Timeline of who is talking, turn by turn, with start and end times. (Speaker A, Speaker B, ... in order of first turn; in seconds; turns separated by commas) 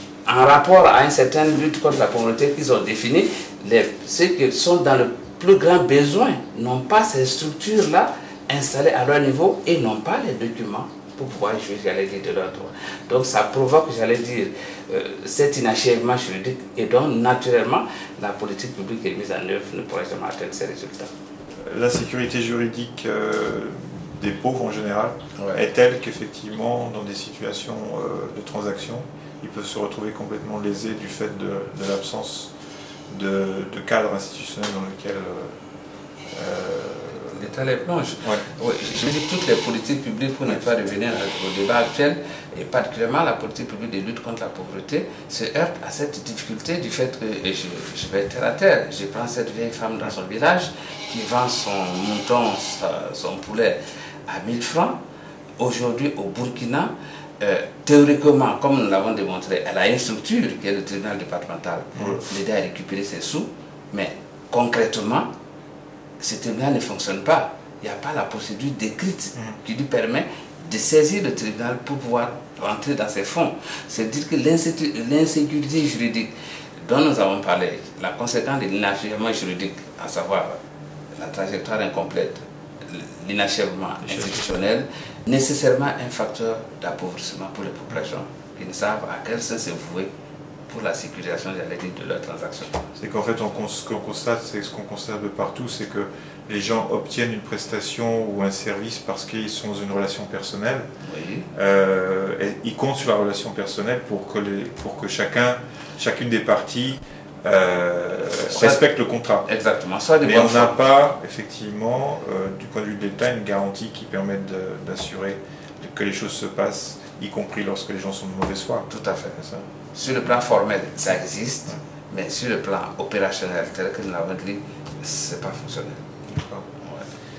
Speaker A: 0.2-21.1, Speaker B: 21.6-32.5, Speaker B: 33.1-35.5, Speaker B: 36.3-37.4, Speaker A: 37.2-55.0, Speaker A: 55.6-65.3, Speaker A: 66.2-76.3, Speaker A: 76.8-80.5, Speaker A: 81.2-90.1, Speaker B: 84.0-84.5, Speaker A: 90.7-92.9, Speaker B: 93.0-100.8, Speaker A: 101.0-101.5, Speaker B: 101.5-109.5, Speaker A: 108.5-108.8, Speaker A: 109.4-110.8, Speaker B: 110.2-118.8, Speaker A: 118.9-126.0, Speaker B: 126.3-126.9